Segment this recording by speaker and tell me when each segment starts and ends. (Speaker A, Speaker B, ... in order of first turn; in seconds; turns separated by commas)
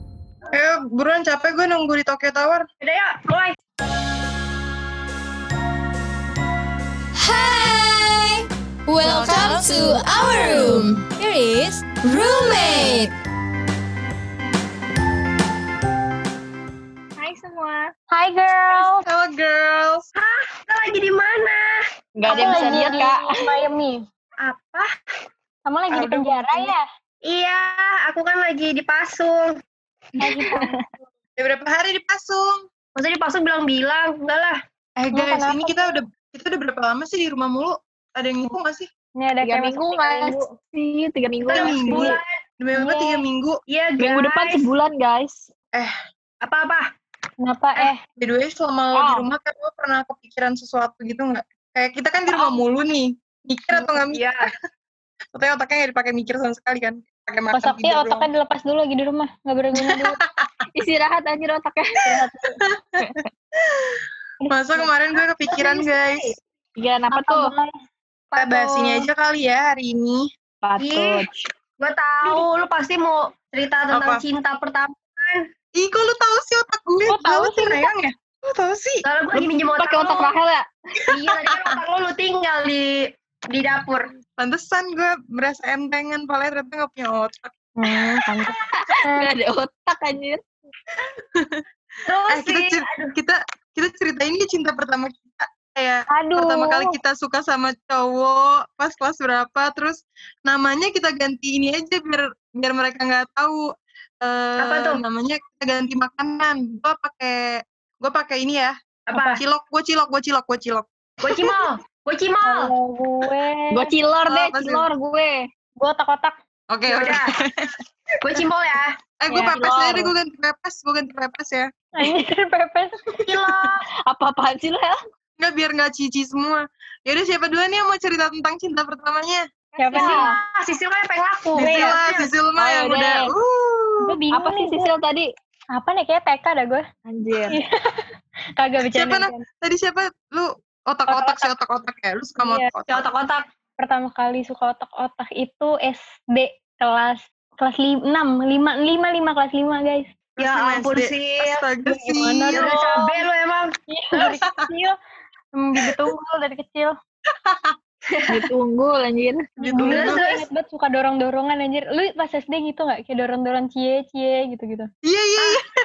Speaker A: 0.5-2.6, Speaker B: 2.8-3.6, Speaker C: 7.2-13.1, Speaker A: 9.0-10.0, Speaker D: 17.2-17.9, Speaker E: 18.1-19.1, Speaker A: 19.1-20.0, Speaker B: 20.2-23.0, Speaker D: 22.2-23.4, Speaker E: 22.3-24.0, Speaker B: 24.4-24.9, Speaker E: 25.6-26.8, Speaker A: 25.9-26.7, Speaker B: 27.2-29.5, Speaker E: 30.2-30.7, Speaker D: 30.2-30.8, Speaker A: 31.4-32.6, Speaker B: 33.0-34.6, Speaker A: 35.0-38.9, Speaker E: 35.1-36.0, Speaker E: 39.2-40.4, Speaker D: 39.4-42.2, Speaker B: 41.5-42.3, Speaker A: 41.5-43.5, Speaker E: 42.8-43.1, Speaker B: 43.7-44.6, Speaker D: 44.0-45.5, Speaker B: 46.4-46.9, Speaker E: 47.4-48.0, Speaker A: 47.8-54.5, Speaker D: 48.9-49.3, Speaker B: 53.8-54.5, Speaker A: 55.3-58.3, Speaker E: 57.5-60.2, Speaker A: 59.8-60.3, Speaker D: 60.8-62.3, Speaker E: 62.1-62.5, Speaker A: 62.7-66.4, Speaker E: 64.4-64.9, Speaker B: 65.5-66.2, Speaker D: 66.8-67.5, Speaker E: 67.1-67.7, Speaker B: 68.3-69.1, Speaker A: 68.3-70.3, Speaker D: 70.6-71.3, Speaker B: 70.8-71.2, Speaker B: 71.8-75.5, Speaker A: 73.9-74.2, Speaker A: 75.8-79.0, Speaker E: 77.1-77.9, Speaker B: 79.0-80.3, Speaker D: 79.4-80.7, Speaker B: 81.1-84.1, Speaker A: 84.4-87.5, Speaker E: 87.8-89.3, Speaker D: 88.8-90.4, Speaker A: 91.3-91.6, Speaker B: 92.1-93.2, Speaker A: 92.3-103.6, Speaker E: 96.1-97.0, Speaker A: 104.2-111.3, Speaker B: 104.6-105.0, Speaker B: 109.1-109.4, Speaker B: 111.2-112.7, Speaker E: 112.4-113.9, Speaker D: 113.7-115.4, Speaker A: 114.3-114.8, Speaker E: 115.8-116.4, Speaker A: 116.7-117.7, Speaker B: 116.9-117.3, Speaker B: 118.2-119.0, Speaker A: 119.2-121.7, Speaker D: 119.3-120.1, Speaker E: 122.0-122.9, Speaker B: 123.3-123.8, Speaker A: 123.3-123.5, Speaker D: 124.1-125.0, Speaker A: 125.4-129.4, Speaker D: 129.8-130.3, Speaker E: 129.8-130.3, Speaker B: 130.0-132.3, Speaker E: 131.6-132.0, Speaker A: 131.6-134.1, Speaker E: 132.6-133.3, Speaker E: 134.0-134.9, Speaker D: 134.3-135.3, Speaker E: 135.7-136.8, Speaker D: 137.1-137.6, Speaker E: 137.5-138.0, Speaker E: 138.6-139.4, Speaker A: 138.9-143.1, Speaker E: 141.1-141.5, Speaker E: 142.4-142.7, Speaker B: 142.9-143.4, Speaker E: 143.8-150.1, Speaker A: 150.4-152.8, Speaker B: 150.4-151.6, Speaker E: 151.8-153.2, Speaker B: 152.6-153.7, Speaker E: 153.9-154.9, Speaker E: 155.6-156.9, Speaker A: 157.4-157.8, Speaker B: 158.1-158.5, Speaker D: 158.3-160.0, Speaker E: 159.6-164.9, Speaker A: 159.6-160.2, Speaker B: 159.9-160.5, Speaker A: 165.1-165.6